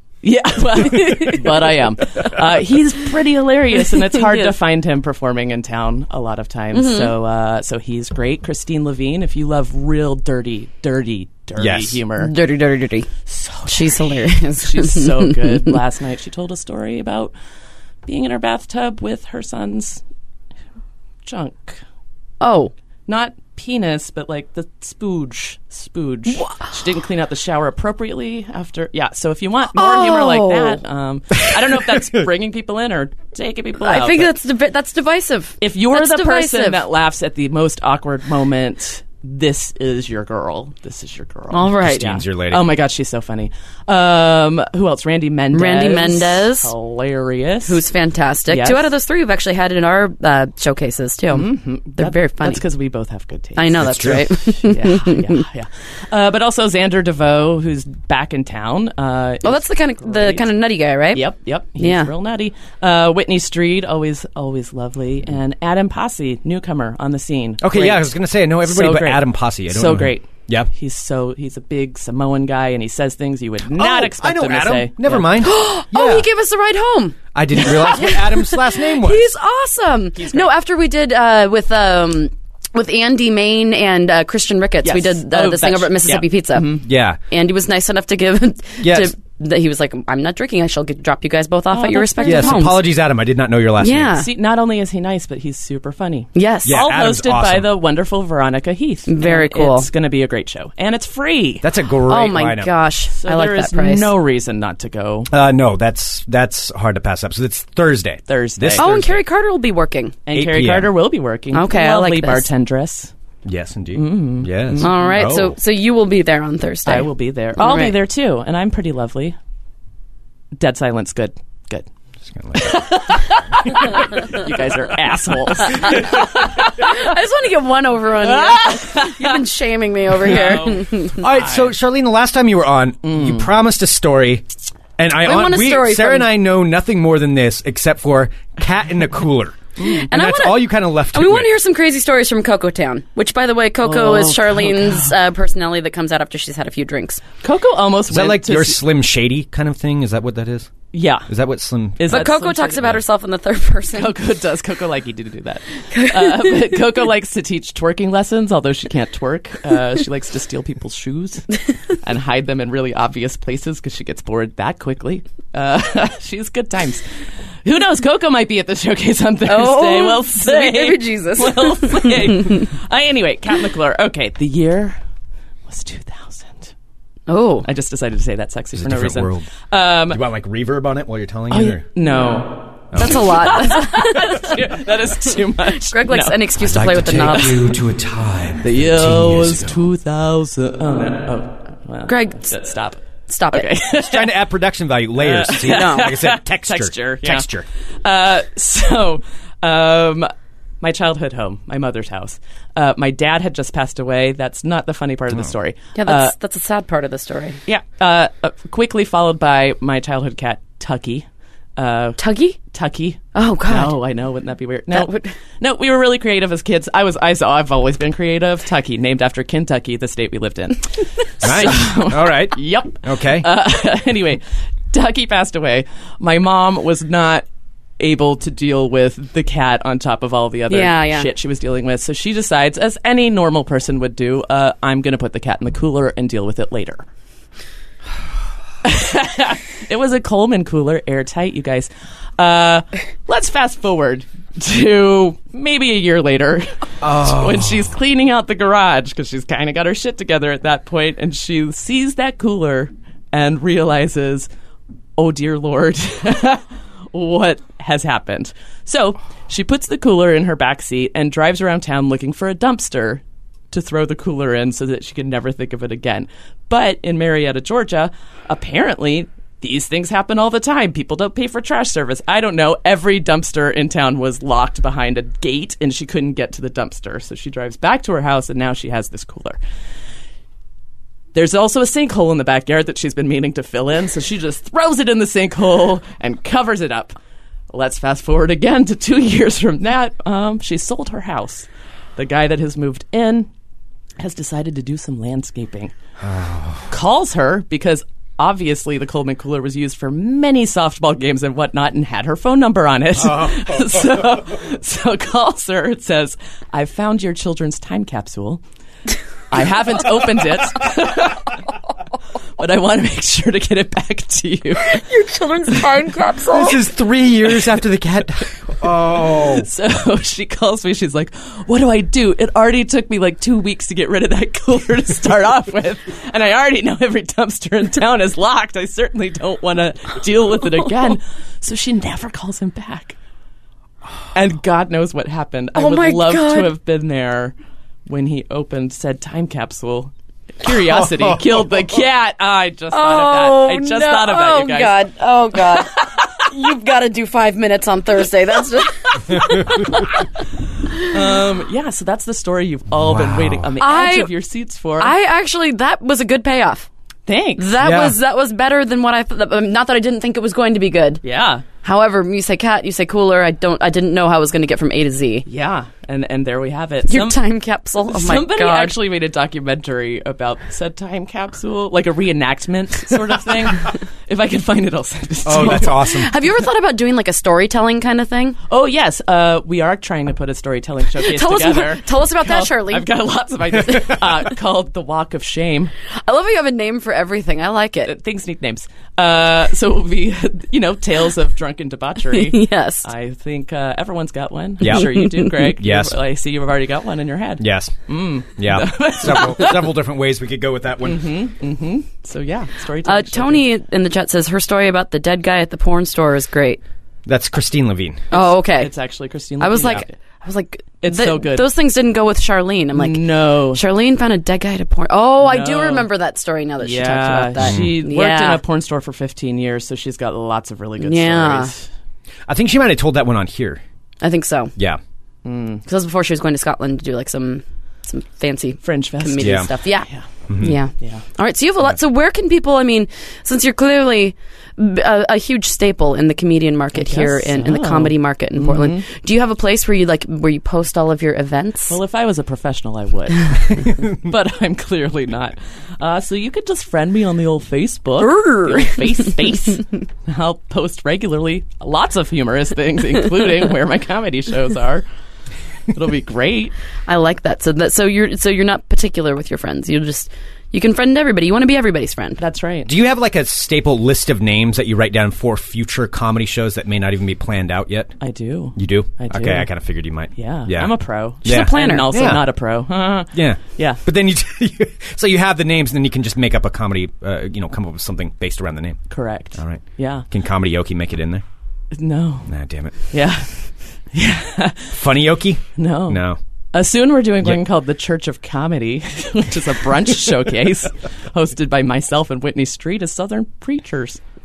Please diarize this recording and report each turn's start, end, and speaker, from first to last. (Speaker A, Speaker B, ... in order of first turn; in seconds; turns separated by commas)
Speaker A: 0.2-12.3, Speaker B: 0.9-1.4, Speaker B: 6.7-7.1, Speaker C: 11.6-12.0, Speaker B: 12.2-13.1, Speaker A: 13.3-17.3, Speaker B: 13.7-15.4, Speaker A: 18.0-20.0, Speaker A: 21.2-21.8, Speaker B: 22.4-22.7, Speaker A: 23.1-34.3, Speaker B: 26.3-26.7, Speaker B: 29.7-30.8, Speaker B: 33.8-36.8, Speaker A: 35.6-47.8, Speaker B: 41.5-42.2, Speaker C: 41.8-42.8, Speaker B: 45.5-46.7, Speaker B: 47.7-52.6, Speaker A: 48.5-48.9, Speaker A: 51.3-60.5, Speaker B: 53.6-55.4, Speaker C: 53.8-54.3, Speaker B: 59.4-62.1, Speaker A: 61.1-68.1, Speaker C: 67.6-70.7, Speaker A: 68.6-75.3, Speaker C: 73.7-76.3, Speaker B: 75.4-92.8, Speaker C: 77.3-79.3, Speaker A: 84.8-86.9, Speaker C: 86.8-87.2, Speaker C: 88.8-89.1, Speaker A: 91.7-92.8, Speaker C: 92.2-94.2, Speaker B: 93.8-94.3, Speaker A: 94.2-101.7, Speaker B: 96.3-96.8, Speaker C: 96.7-97.7, Speaker B: 99.1-99.9, Speaker C: 101.6-102.7, Speaker B: 102.0-104.1, Speaker A: 103.1-105.3, Speaker C: 105.3-109.1, Speaker A: 108.3-109.2, Speaker B: 108.8-110.2, Speaker A: 110.3-113.1, Speaker C: 110.3-111.0, Speaker B: 111.5-112.5, Speaker C: 113.5-115.5, Speaker A: 114.0-115.4, Speaker B: 114.8-118.0, Speaker A: 116.9-119.4, Speaker A: 120.6-121.9, Speaker C: 122.2-123.3, Speaker A: 122.6-127.1, Speaker B: 125.9-126.2, Speaker B: 126.8-131.2, Speaker A: 128.2-129.4, Speaker A: 130.2-131.7, Speaker C: 131.2-141.5, Speaker A: 133.0-133.5, Speaker B: 135.2-136.3, Speaker A: 139.8-140.1, Speaker B: 140.0-147.2, Speaker A: 143.8-145.2, Speaker A: 147.4-148.8, Speaker C: 148.1-150.8, Speaker A: 150.9-151.3, Speaker C: 151.3-152.3, Speaker A: 152.0-153.0, Speaker B: 152.1-154.2, Speaker A: 153.9-167.1, Speaker B: 155.9-156.7, Speaker A: 167.6-175.0, Speaker B: 169.4-172.4, Speaker A: 175.7-176.7, Speaker B: 177.3-177.7, Speaker A: 177.6-180.2, Speaker C: 178.7-179.5, Speaker C: 180.1-181.9, Speaker A: 181.5-186.5, Speaker C: 182.9-183.7, Speaker B: 182.9-184.6, Speaker B: 185.8-187.8, Speaker C: 186.6-189.8, Speaker A: 188.6-193.0, Speaker B: 192.1-192.6, Speaker B: 193.3-193.7, Speaker A: 193.5-194.4, Speaker C: 193.9-197.7, Speaker A: 195.2-197.5, Speaker B: 195.7-196.1, Speaker A: 198.0-206.3, Speaker B: 206.0-207.6, Speaker A: 207.7-227.5, Speaker B: 212.2-212.6, Speaker B: 213.3-214.0, Speaker B: 214.9-215.3, Speaker C: 221.4-223.5, Speaker A: 228.0-237.1, Speaker B: 230.7-231.3, Speaker A: 238.8-254.5, Speaker C: 247.0-247.8, Speaker A: 255.2-279.6, Speaker A: 281.3-287.2, Speaker A: 287.7-293.5, Speaker A: 294.2-295.9, Speaker C: 296.2-296.9, Speaker A: 296.9-308.6, Speaker C: 303.2-304.2, Speaker A: 309.5-311.6, Speaker A: 312.6-315.0, Speaker B: 314.8-316.8, Speaker C: 316.5-319.7, Speaker A: 319.1-333.2, Speaker A: 334.3-337.6, Speaker B: 335.8-336.7, Speaker A: 338.1-345.0, Speaker C: 340.8-341.6, Speaker B: 342.9-350.1, Speaker A: 351.1-355.1, Speaker C: 352.9-353.7, Speaker B: 353.8-354.3, Speaker B: 355.0-356.9, Speaker A: 357.3-357.7, Speaker B: 357.6-361.2, Speaker C: 357.8-358.2, Speaker A: 361.2-361.6, Speaker B: 361.8-365.5, Speaker A: 365.5-367.4, Speaker B: 367.1-369.0, Speaker A: 368.1-376.0, Speaker C: 375.4-376.3, Speaker B: 375.5-378.6, Speaker A: 378.7-385.9, Speaker B: 381.2-383.1, Speaker B: 386.2-388.1, Speaker A: 388.1-400.0, Speaker B: 392.3-393.1, Speaker C: 394.8-396.2, Speaker B: 394.8-395.7, Speaker C: 397.6-401.3, Speaker A: 401.1-403.7, Speaker B: 403.0-406.8, Speaker C: 407.3-408.2, Speaker B: 408.3-408.9, Speaker A: 408.3-410.1, Speaker B: 409.6-418.6, Speaker A: 411.0-411.7, Speaker A: 412.9-413.8, Speaker A: 415.4-416.1, Speaker A: 416.8-421.9, Speaker C: 417.6-418.0, Speaker B: 421.0-421.7, Speaker C: 422.5-423.8, Speaker B: 424.2-424.7, Speaker A: 425.4-425.8, Speaker B: 425.9-442.0, Speaker A: 428.8-430.3, Speaker C: 429.4-429.7, Speaker C: 430.5-430.8, Speaker A: 431.0-431.2, Speaker A: 436.9-439.0, Speaker A: 441.9-455.1, Speaker B: 448.2-449.3, Speaker A: 455.9-456.7, Speaker B: 457.1-462.4, Speaker A: 462.4-462.9, Speaker C: 462.9-468.2, Speaker A: 468.2-469.7, Speaker C: 468.8-472.5, Speaker A: 470.4-474.0, Speaker B: 471.4-472.1, Speaker C: 473.3-481.4, Speaker A: 479.1-480.3, Speaker A: 481.9-482.5, Speaker C: 482.5-482.9, Speaker A: 483.1-485.0, Speaker C: 484.9-486.4, Speaker A: 485.8-486.2, Speaker A: 486.7-494.2